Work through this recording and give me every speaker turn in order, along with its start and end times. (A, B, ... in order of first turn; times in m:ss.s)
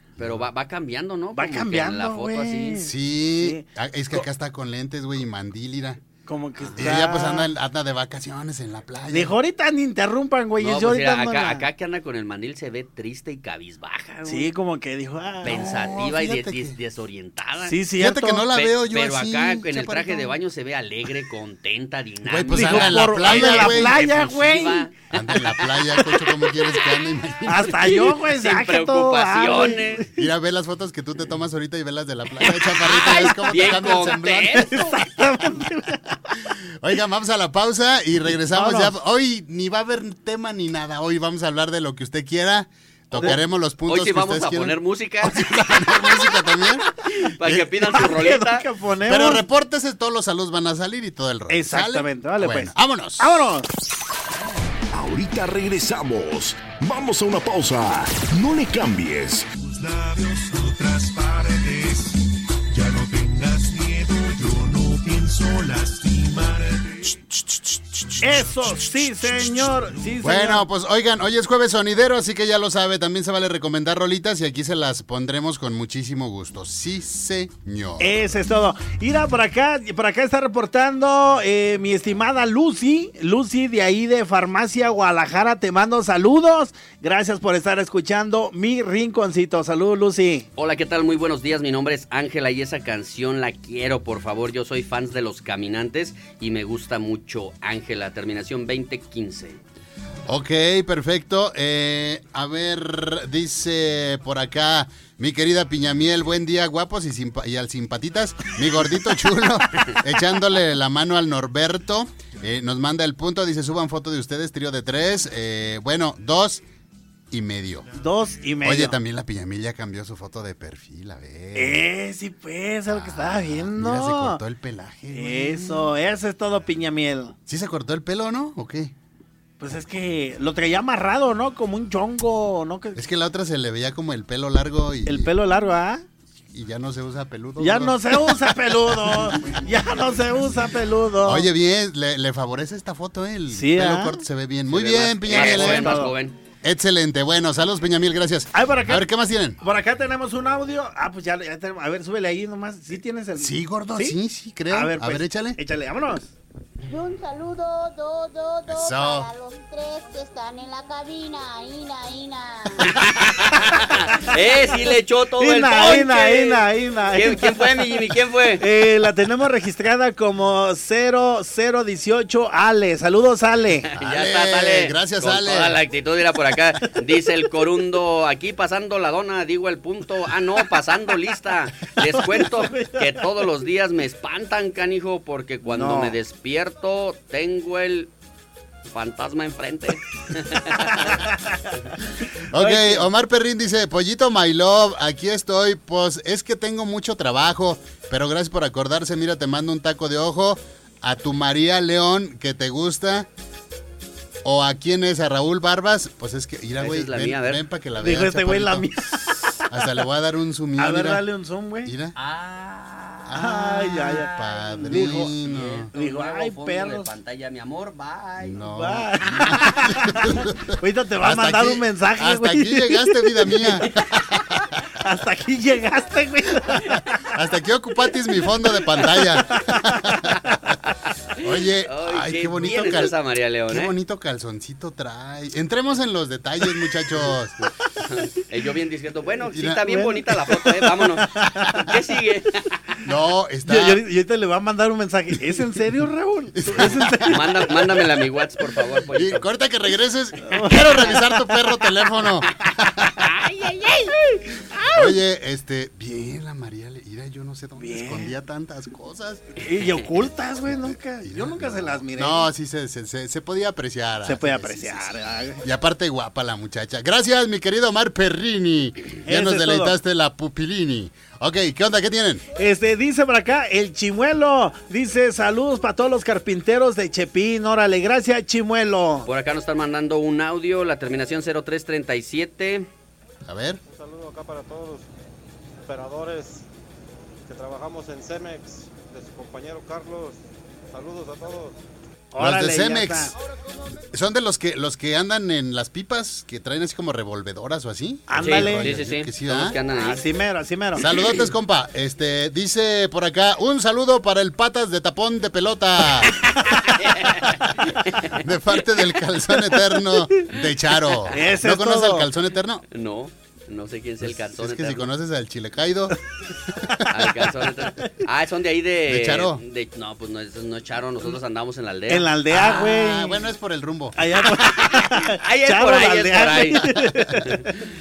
0:00.2-0:02.8 A
0:01.4-0:03.6 B
0:02.8-0:06.0 C
0:06.3-0:07.5 B
0:06.8-0:09.4 C
0:09.1-0:11.6 B
0:10.6-0:14.5 A
0:14.2-0:15.8 B
0:15.4-0:17.8 A
0:15.4-0:16.8 C
0:17.7-0:18.5 B
0:18.0-0:20.4 C
0:18.5-0:25.7 A
0:22.2-0:24.0 C
0:22.5-0:24.9 B
0:25.1-0:28.0 C
0:27.5-0:30.1 B
0:28.2-0:30.1 A
0:30.2-0:34.8 C
0:32.7-0:34.9 A
0:34.6-0:36.2 B
0:36.8-0:46.9 C
0:38.5-0:38.9 B
0:43.9-0:45.5 A
0:47.1-0:48.7 A
0:47.4-0:47.7 C
0:47.8-0:49.4 B
0:49.1-0:53.4 C
0:51.5-0:53.7 B
0:54.9-0:59.5 D
0:59.7-1:02.1 E
1:02.7-1:06.8 E
1:08.2-1:10.6 B
1:10.2-1:18.2 C
1:18.0-1:30.5 B
1:30.6-1:39.6 A
1:40.3-1:56.6 C
1:57.3-1:57.9 C
1:58.0-1:59.0 B
1:58.6-2:01.8 C
2:01.6-2:04.4 B
2:02.9-2:05.9 C
2:05.1-2:07.4 B
2:07.5-2:08.9 C
2:09.6-2:13.0 B
2:13.0-2:15.3 C
2:15.1-2:16.0 B
2:16.5-2:18.6 C
2:17.6-2:21.5 B
2:19.1-2:19.4 C
2:21.2-2:26.1 C
2:23.5-2:24.2 B
2:24.7-2:26.4 A
2:25.3-2:26.1 B
2:26.6-2:29.6 C
2:28.5-2:29.0 B
2:29.6-2:34.2 B
2:33.4-2:35.6 C
2:34.7-2:36.3 B
2:36.9-2:43.1 F
2:38.7-2:39.3 C
2:42.8-2:48.6 A
2:45.4-2:48.0 B
2:48.6-2:53.9 B
2:53.9-3:08.1 A
2:54.0-2:55.8 C
3:02.2-3:03.1 B
3:05.7-3:06.2 B
3:08.9-3:11.2 A
3:10.9-3:11.5 B
3:12.5-3:23.3 C
3:12.6-3:13.1 B
3:24.4-3:29.0 C
3:26.8-3:27.6 A
3:28.0-3:29.6 B
3:29.6-3:31.2 C
3:30.8-3:31.9 B
3:31.8-3:32.2 C
3:32.4-3:32.8 A
3:33.2-3:34.3 B
3:33.3-3:35.9 C
3:34.8-3:35.3 B
3:35.0-3:38.7 A
3:35.9-3:37.1 B
3:38.4-3:44.6 C
3:38.7-3:43.8 B
3:44.9-3:47.1 B
3:47.3-3:50.4 C
3:49.5-3:50.2 B
3:51.4-3:53.2 C
3:51.5-3:53.9 A
3:53.7-3:57.6 C
3:58.0-4:02.7 A
3:59.5-3:59.9 C
3:59.9-4:01.9 B
4:03.0-4:04.0 C
4:03.7-4:07.5 B
4:06.6-4:07.4 C
4:07.3-4:09.5 A
4:09.1-4:13.0 C
4:10.4-4:11.6 B
4:14.7-4:15.0 B
4:14.8-4:19.6 C
4:17.8-4:18.3 B
4:19.6-4:22.5 B
4:21.2-4:32.4 C
4:24.2-4:25.6 B
4:29.3-4:30.0 B
4:32.6-4:39.3 B
4:39.3-4:42.9 A
4:43.4-4:43.8 C
4:43.9-4:45.1 G
4:45.9-4:46.6 G
4:47.5-4:50.4 G
4:50.9-4:51.8 G
4:52.3-4:53.4 B
4:52.4-4:53.4 C
4:54.1-4:59.8 C
4:58.3-4:58.9 B
4:58.4-5:00.2 A
4:59.9-5:01.0 B
5:01.0-5:06.4 C
5:07.0-5:08.4 A
5:08.4-5:12.8 C
5:11.3-5:12.3 B
5:12.9-5:15.1 A
5:14.2-5:16.2 C
5:17.1-5:22.3 A
5:19.1-5:19.6 C
5:22.1-5:23.4 B
5:22.5-5:24.2 C
5:24.2-5:27.6 B
5:24.6-5:27.1 A